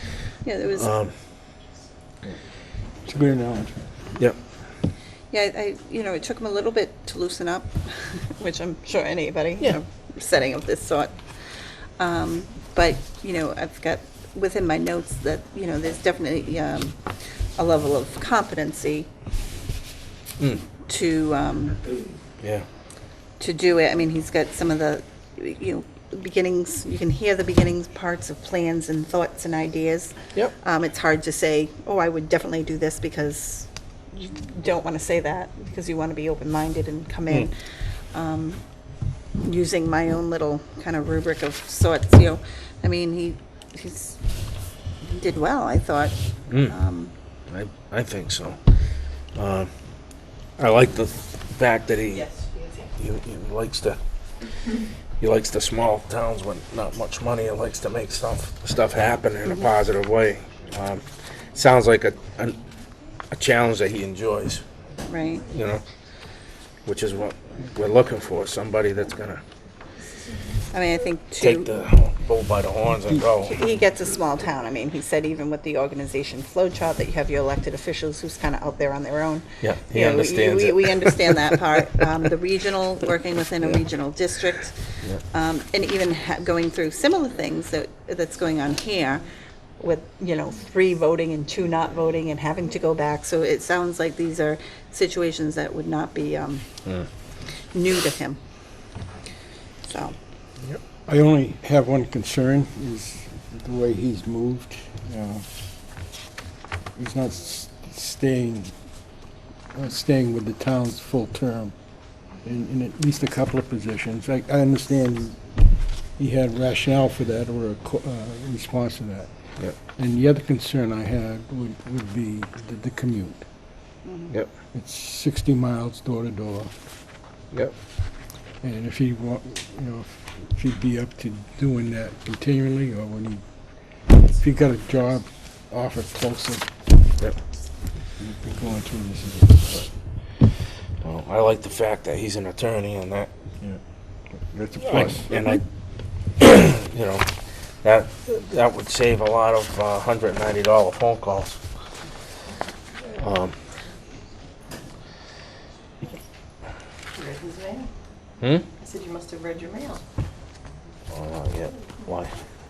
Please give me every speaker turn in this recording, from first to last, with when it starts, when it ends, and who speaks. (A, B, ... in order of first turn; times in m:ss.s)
0:00.4-0:00.9 A
0:00.8-0:01.1 B
0:03.0-0:03.8 C
0:05.3-0:11.1 A
0:12.0-0:17.0 A
0:17.6-0:19.1 A
0:20.8-0:21.9 A
0:22.4-0:22.6 B
0:23.4-0:37.5 A
0:38.1-0:38.6 A
0:39.4-0:44.2 A
0:45.0-0:46.1 A
0:46.5-0:46.7 B
0:46.7-0:47.1 A
0:47.5-0:48.6 B
0:49.3-0:49.7 B
0:50.6-0:52.3 B
0:52.2-0:52.9 D
0:53.0-0:54.0 B
0:55.2-1:02.6 B
1:03.3-1:04.6 B
1:05.1-1:05.4 A
1:05.5-1:05.8 B
1:06.8-1:09.4 B
1:10.7-1:11.7 A
1:11.4-1:13.6 B
1:13.4-1:24.8 A
1:19.6-1:22.0 B
1:25.3-1:29.2 A
1:29.8-1:36.6 A
1:37.7-1:38.4 A
1:39.9-1:40.1 A
1:40.9-1:45.4 C
1:47.0-1:48.7 C
1:49.7-1:51.7 C
1:52.4-1:55.6 C
1:56.1-1:59.3 C
1:59.8-2:03.4 C
2:04.0-2:04.3 A
2:04.7-2:06.7 C
2:08.6-2:13.4 C
2:14.1-2:16.7 C
2:18.2-2:19.9 C
2:21.0-2:23.3 B
2:24.4-2:25.3 C
2:24.8-2:25.6 B
2:26.4-2:27.3 B
2:27.8-2:31.6 B
2:33.1-2:33.6 B
2:37.1-2:37.9 D
2:38.4-2:38.7 B
2:38.8-2:40.0 D
2:41.1-2:42.3 B